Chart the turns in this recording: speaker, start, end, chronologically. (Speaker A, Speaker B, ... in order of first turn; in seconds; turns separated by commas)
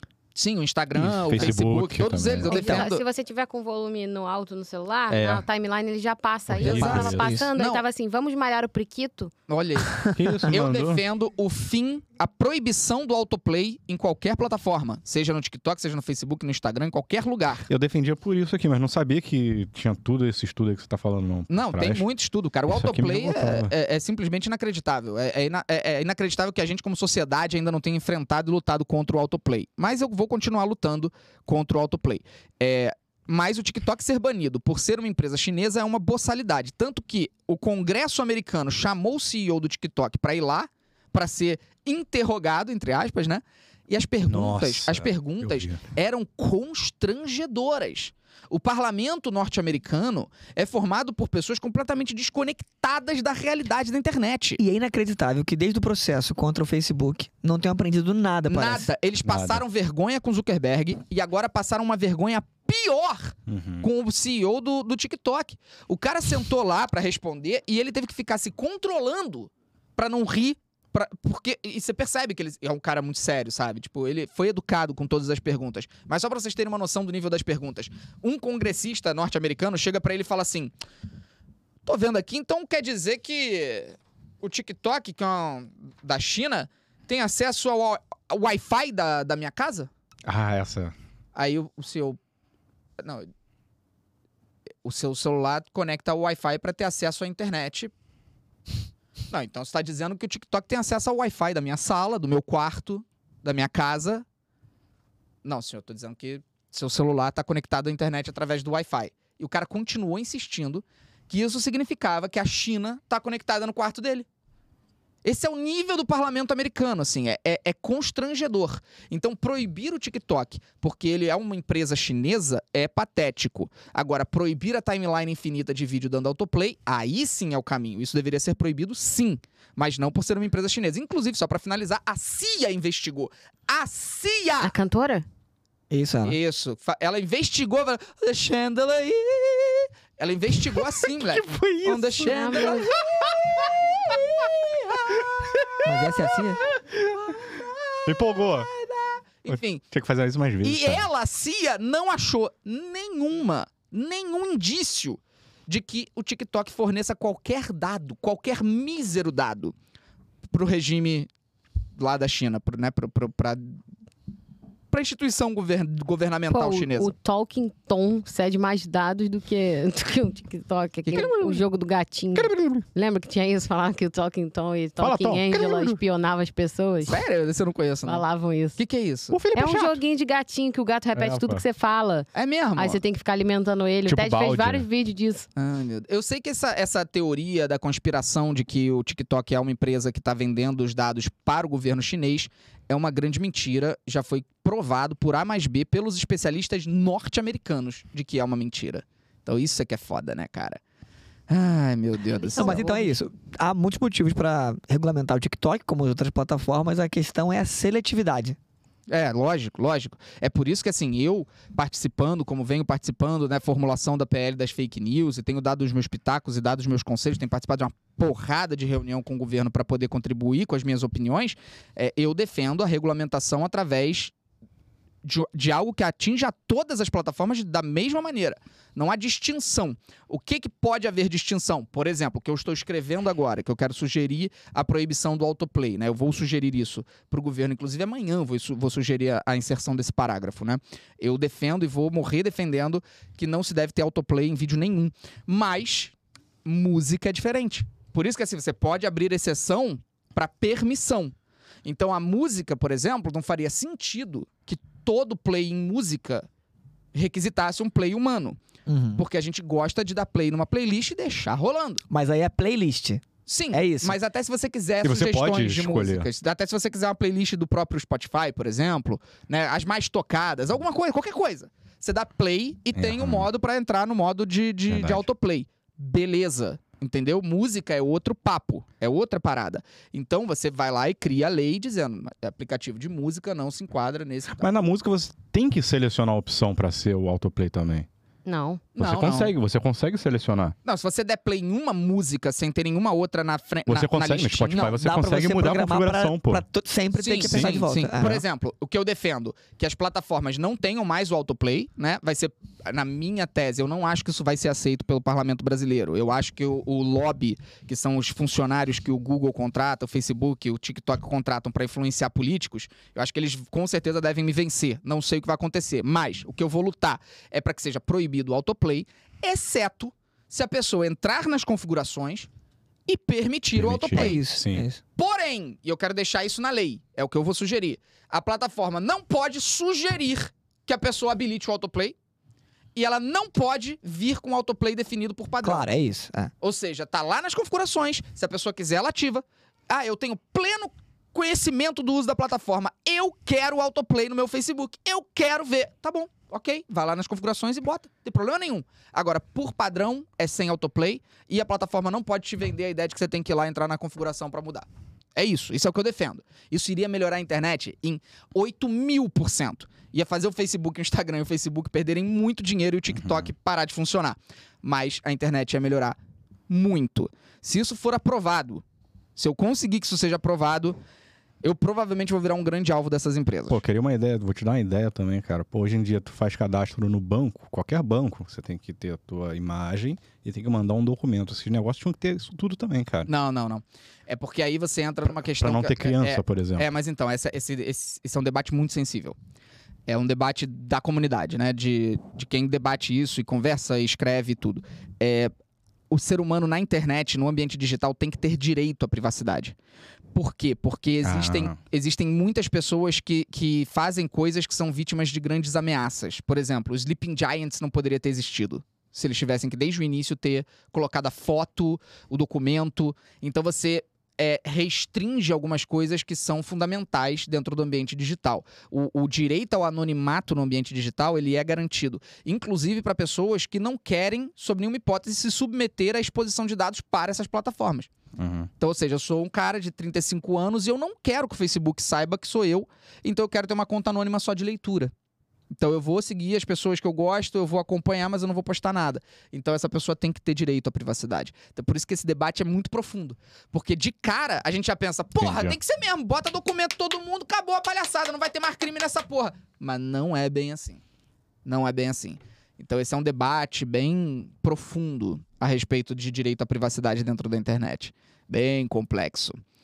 Speaker A: 0.3-3.0, Speaker B: 0.9-2.8, Speaker C: 2.5-9.3, Speaker B: 5.1-5.4, Speaker B: 6.5-7.3, Speaker A: 6.6-7.8, Speaker D: 6.7-7.5, Speaker A: 9.5-17.7, Speaker B: 10.1-11.0, Speaker B: 17.7-22.0, Speaker A: 21.5-54.6, Speaker B: 22.7-23.7, Speaker B: 44.3-45.8, Speaker D: 54.6-58.9, Speaker A: 58.5-80.7, Speaker B: 59.2-59.6, Speaker B: 63.5-63.9, Speaker A: 81.8-89.9, Speaker B: 90.2-90.9, Speaker A: 91.3-92.2, Speaker A: 93.0-93.3, Speaker A: 94.8-97.9, Speaker A: 99.3-104.2, Speaker A: 105.4-114.2, Speaker A: 115.2-134.7, Speaker C: 134.6-135.2, Speaker D: 135.9-136.4, Speaker A: 136.2-145.2, Speaker D: 141.8-142.7, Speaker C: 142.2-142.9, Speaker D: 145.8-146.6, Speaker A: 147.3-149.8, Speaker B: 148.1-148.7, Speaker B: 149.5-151.1, Speaker A: 150.6-159.7, Speaker A: 160.5-161.3, Speaker A: 162.0-163.8, Speaker A: 164.9-167.1, Speaker C: 166.5-177.2, Speaker A: 171.1-171.6, Speaker B: 172.3-172.8, Speaker B: 175.0-176.0, Speaker A: 177.1-178.2, Speaker C: 178.0-178.8, Speaker A: 178.8-179.4, Speaker B: 179.3-180.0, Speaker C: 179.5-185.5, Speaker B: 181.1-181.6, Speaker A: 182.3-183.0, Speaker B: 184.1-184.8, Speaker A: 185.6-200.8, Speaker A: 201.5-202.8, Speaker C: 202.3-203.2, Speaker D: 202.5-208.6, Speaker A: 209.1-224.3, Speaker A: 225.2-246.1, Speaker A: 246.6-251.3, Speaker A: 251.8-256.4, Speaker A: 257.1-258.6, Speaker D: 258.9-259.2, Speaker A: 259.1-262.0, Speaker D: 262.1-264.2, Speaker A: 263.5-284.6, Speaker B: 265.0-266.3, Speaker B: 272.9-273.5, Speaker B: 274.9-275.2, Speaker B: 284.6-288.1, Speaker C: 288.4-288.8, Speaker A: 288.9-289.5, Speaker B: 289.0-290.7, Speaker A: 290.8-294.9, Speaker B: 293.9-296.6, Speaker D: 294.8-298.4, Speaker A: 297.1-322.5, Speaker B: 297.4-298.4, Speaker A: 323.1-324.4, Speaker B: 323.7-324.8, Speaker D: 324.1-325.0, Speaker A: 325.2-332.1, Speaker A: 332.9-335.8, Speaker D: 335.6-336.5, Speaker A: 336.6-366.1, Speaker B: 363.2-363.5, Speaker A: 366.7-368.8, Speaker A: 369.4-371.0, Speaker A: 371.6-373.8, Speaker B: 373.7-383.3, Speaker A: 383.3-389.4, Speaker B: 385.6-386.9, Speaker A: 390.1-395.5, Speaker A: 396.1-399.7, Speaker A: 400.3-428.1, Speaker B: 401.2-401.7, Speaker B: 428.4-428.7, Speaker A: 428.8-435.1, Speaker A: 435.7-451.0, Speaker B: 445.4-445.8, Speaker A: 451.6-459.6